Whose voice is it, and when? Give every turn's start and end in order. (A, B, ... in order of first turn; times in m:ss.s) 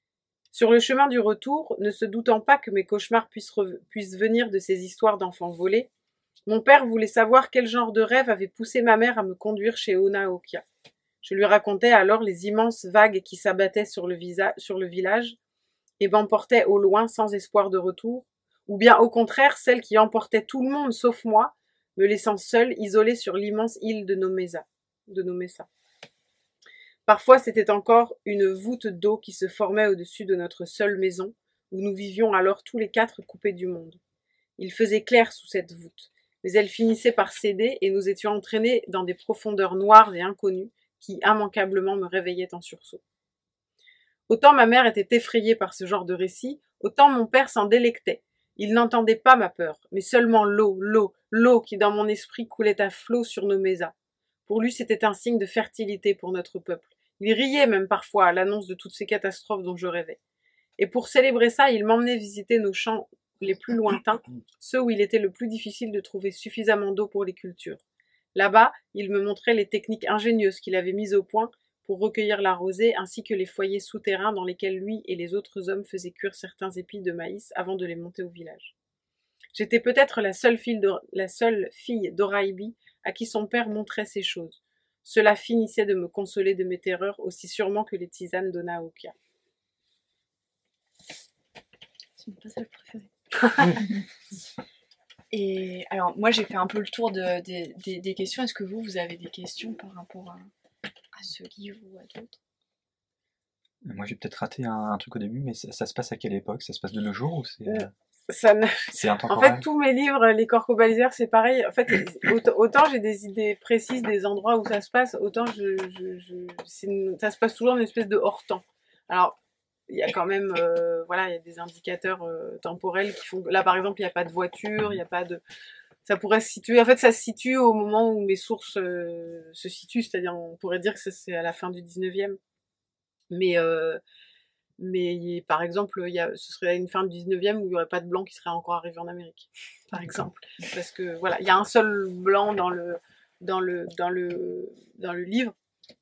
0:00.5-0:05.9 A
0:06.5-0:10.6 A
0:11.2-0:15.4 A
0:16.0-0:25.7 A
0:27.1-0:34.0 A
0:34.6-0:43.0 A
0:44.3-0:53.9 A
0:54.5-1:00.2 A
1:00.8-1:07.8 A
1:08.3-1:18.7 A
1:19.5-1:29.1 A
1:32.2-1:33.1 B
1:35.3-1:40.5 B
1:41.1-1:42.4 B
1:43.8-1:47.9 C
1:47.7-1:59.4 A
1:48.9-1:49.6 C
1:59.9-2:05.4 A
2:06.0-2:12.4 A
2:13.3-2:14.0 A
2:14.8-2:25.5 A